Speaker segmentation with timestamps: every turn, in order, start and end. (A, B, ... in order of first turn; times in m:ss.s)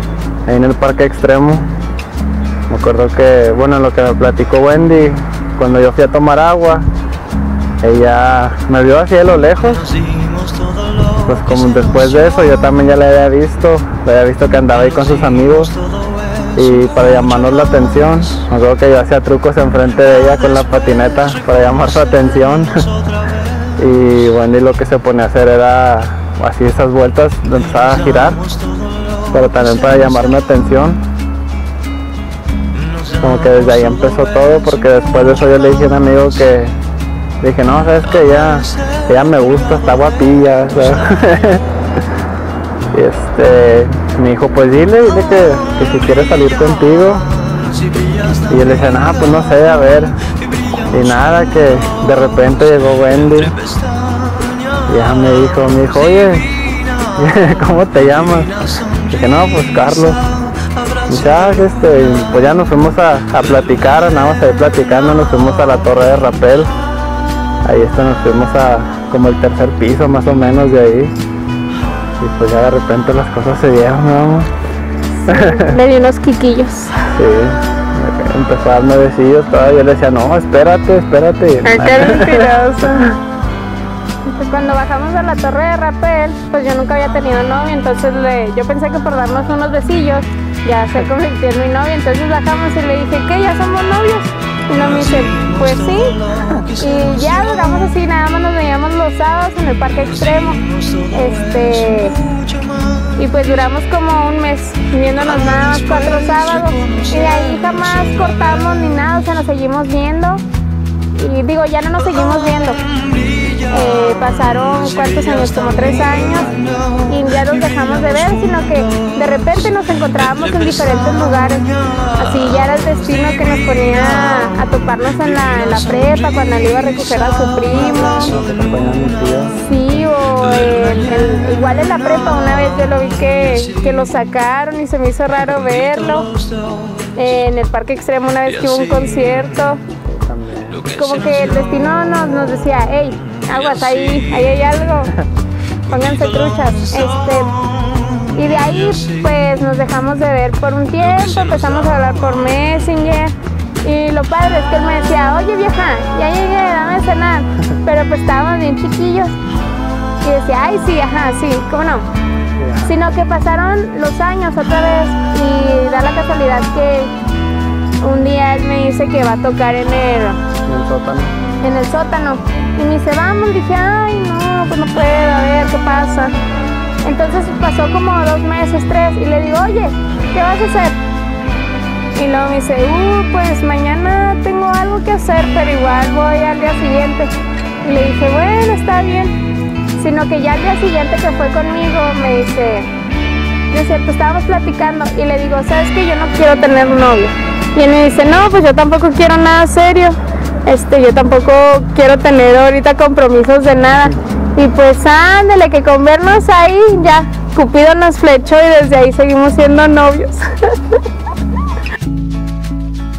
0:00.5-0:01.7 A
0:02.7-0:06.9 A
0:07.8-0:09.9 A
0:11.2-0:15.8 A
0:16.5-0:22.9 A
0:23.8-0:28.4 A
0:29.3-0:31.0 A
0:33.2-0:36.8 A
0:37.4-0:41.6 A
0:42.9-0:47.2 A
0:48.5-0:50.1 A
0:50.9-0:53.6 A
0:54.9-0:56.5 A
0:57.2-0:58.6 A
0:59.1-1:00.2 A
1:01.1-1:06.7 A
1:07.6-1:11.1 A
1:12.2-1:14.5 A
1:15.1-1:17.1 B
1:15.3-1:15.8 A
1:17.1-1:23.0 A
1:21.6-1:23.1 B
1:24.2-1:42.2 B
1:43.2-1:50.4 B
1:51.2-1:52.8 B
1:53.6-2:08.3 B
2:08.2-2:09.6 A
2:09.5-2:16.3 B
2:17.2-2:19.8 B
2:20.0-2:20.9 A
2:20.8-2:25.2 B
2:25.9-2:27.5 B
2:28.3-2:39.4 B
2:40.2-2:42.1 B
2:42.6-2:42.9 A
2:42.8-2:47.1 B
2:48.0-2:50.4 B
2:50.7-2:51.4 A
2:51.6-2:56.3 B
2:57.0-3:00.9 B
3:02.2-3:09.4 B
3:09.9-3:12.9 B
3:13.7-3:31.0 B